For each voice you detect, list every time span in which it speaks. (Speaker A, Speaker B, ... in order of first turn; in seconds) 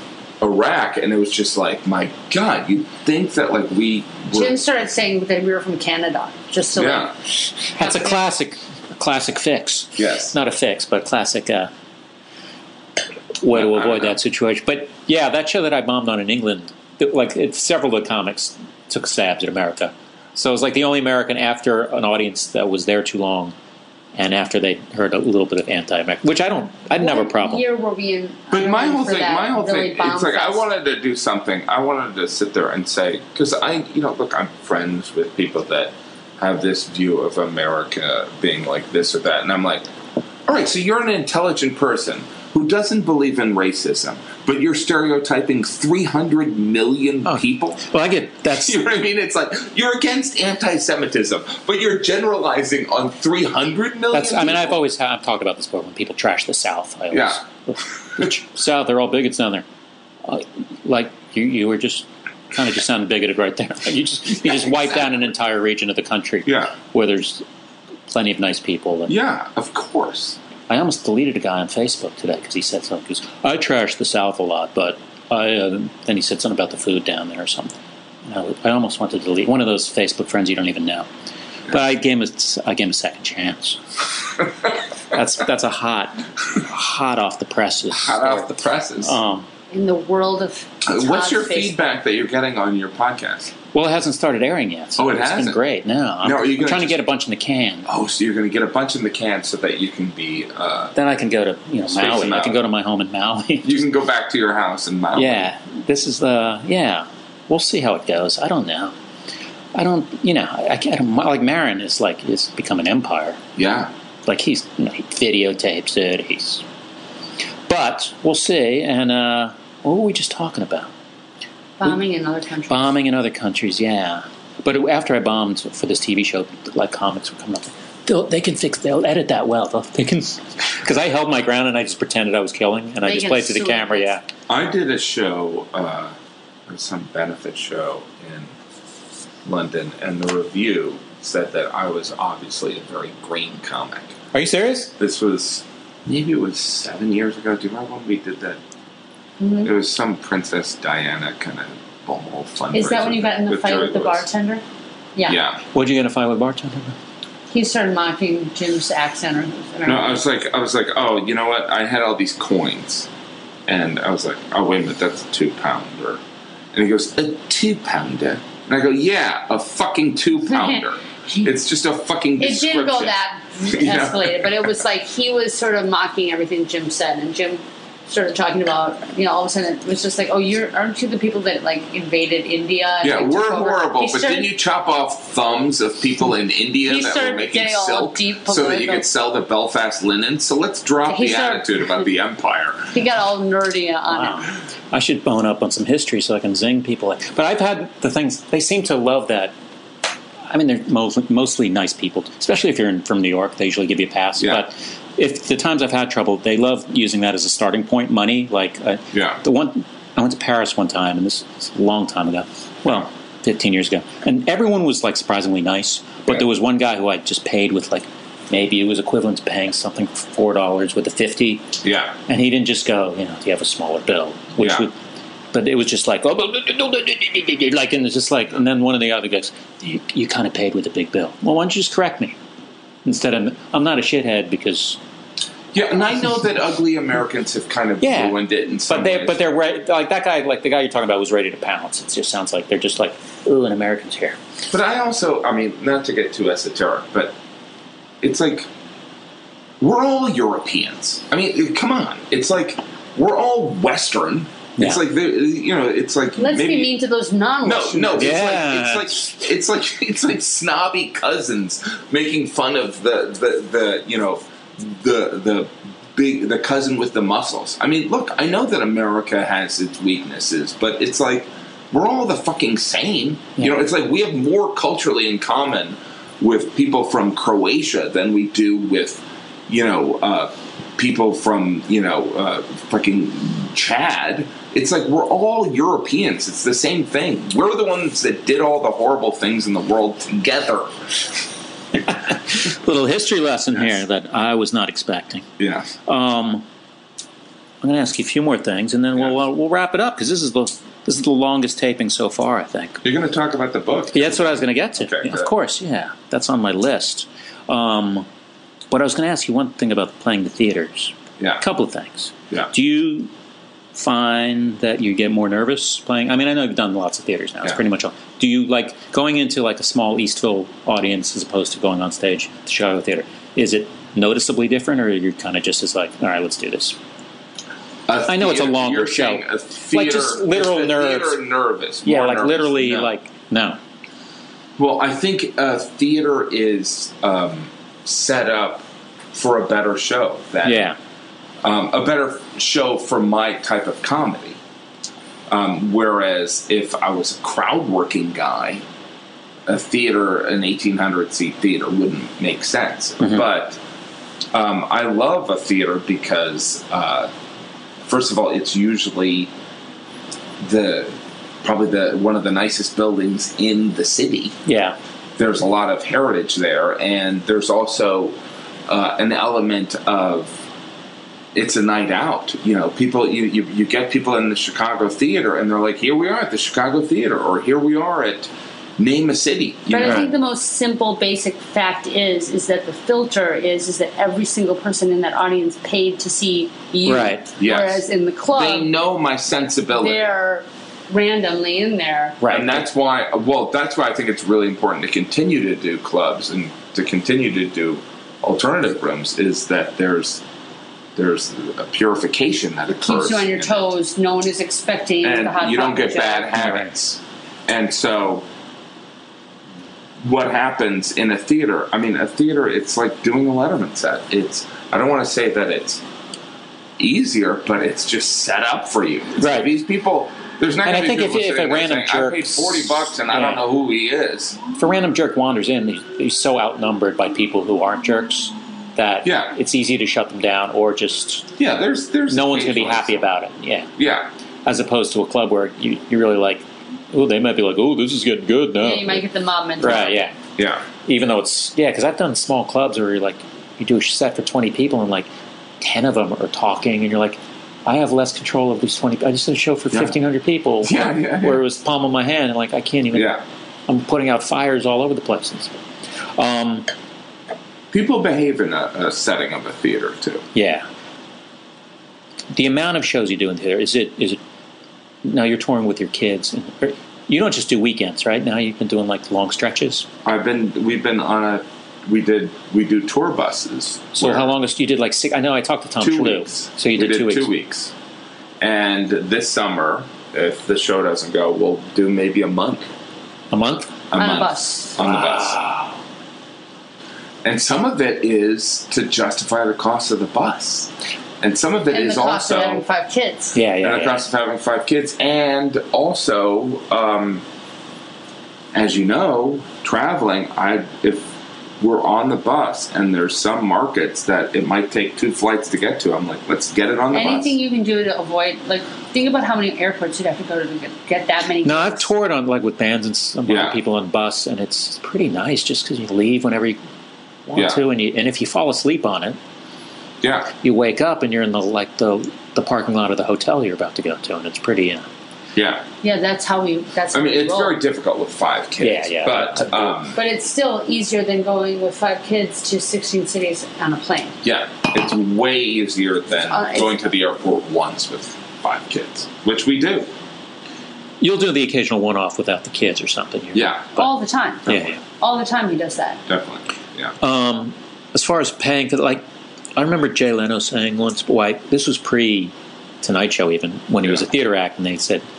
Speaker A: 0.4-4.6, 6.8-7.1, 10.0-10.3, 13.5-14.2, 28.5-39.9, 40.5-47.8, 48.5-54.8, 57.1-57.4, 66.5-66.7, 69.1-70.4, 87.9-89.2, 90.8-93.5, 95.0-95.6, 96.2-97.0, 97.9-100.9, 101.9-102.6, 103.6-105.5, 113.6-113.9, 134.5-136.2, 136.7-138.5, 139.4-144.2, 145.0-148.6, 149.6-154.2, 155.3-155.6, 159.8-163.1, 163.7-166.2, 166.7-173.2, 173.7-174.6, 183.0-192.9, 204.4-204.7, 209.1-209.4, 221.8-222.2, 224.6-224.9, 235.7-239.4, 244.7-247.3, 248.2-248.7, 249.8-256.9, 257.6-291.1, 295.6-295.9, 303.0-305.5, 328.1-333.1, 334.8-340.9, 341.6-344.6, 345.5-348.8, 349.7-353.8, 354.5-357.3, 358.1-359.5, 360.6-364.6, 365.4-368.4, 368.9-370.6, 371.6-380.3, 387.6-390.3, 392.5-400.4, 401.2-403.9, 405.2-408.5, 410.2-416.0, 417.0-424.6, 429.2-429.5, 431.6-433.3, 434.0-434.3, 440.6-440.8, 450.8-451.6, 453.1-453.4, 457.9-460.4, 470.2-474.5, 476.0-477.9, 478.6-482.9, 484.1-485.6, 487.4-492.8, 493.8-497.4, 498.7-501.3, 501.8-507.6, 513.5-513.8, 517.5-517.8, 520.2-520.5, 525.5-525.9, 527.1-530.2, 534.4-540.1, 543.5-544.0, 546.3-547.1
Speaker B: 4.3-7.1, 7.8-8.1, 27.0-30.7, 89.7-91.8, 121.8-122.9, 133.0-134.1, 149.4-149.7, 152.7-154.6, 157.5-160.2, 170.5-171.5, 172.4-184.5, 186.8-189.1, 191.1-192.0, 192.9-194.5, 256.4-258.4, 379.9-388.9, 389.9-392.4, 402.9-406.6, 438.8-440.3, 484.2-485.0, 491.9-493.6, 507.1-512.1, 526.0-527.8, 530.1-534.4, 536.5-537.0, 544.0-546.2
Speaker C: 7.8-11.7, 13.4-23.5, 24.1-27.6, 47.3-48.8, 54.1-59.6, 60.2-67.4, 68.1-69.1, 70.7-77.7, 78.3-81.1, 81.7-83.8, 85.1-89.5, 93.7-97.9, 101.0-103.8, 105.2-108.9, 109.7-113.4, 114.3-116.6, 117.7-120.9, 122.7-134.2, 144.3-144.9, 155.7-156.9, 194.1-199.5, 200.5-221.7, 222.3-224.9, 225.5-232.4, 233.1-235.0, 238.0-244.4, 258.1-259.3, 292.1-295.5, 296.1-296.6, 297.8-303.0, 304.1-308.3, 308.9-313.3, 313.9-327.0, 328.3-331.4, 332.0-333.8, 340.6-341.0, 364.7-365.0, 380.0-380.3, 387.1-387.5, 392.4-392.8, 406.6-406.9, 419.4-419.7, 420.9-423.6, 424.8-431.5, 432.3-433.9, 434.7-439.2, 439.8-440.3, 441.1-445.3, 445.8-453.4, 453.9-455.8, 456.4-456.9, 460.6-460.9, 462.5-464.4, 465.2-470.1, 474.2-477.5, 483.5-483.9, 485.0-486.0, 493.5-494.2, 511.6-516.8, 517.5-519.4, 520.5-525.1, 528.8-530.0, 541.2-544.1, 544.7-545.0, 547.2-549.2, 549.8-555.2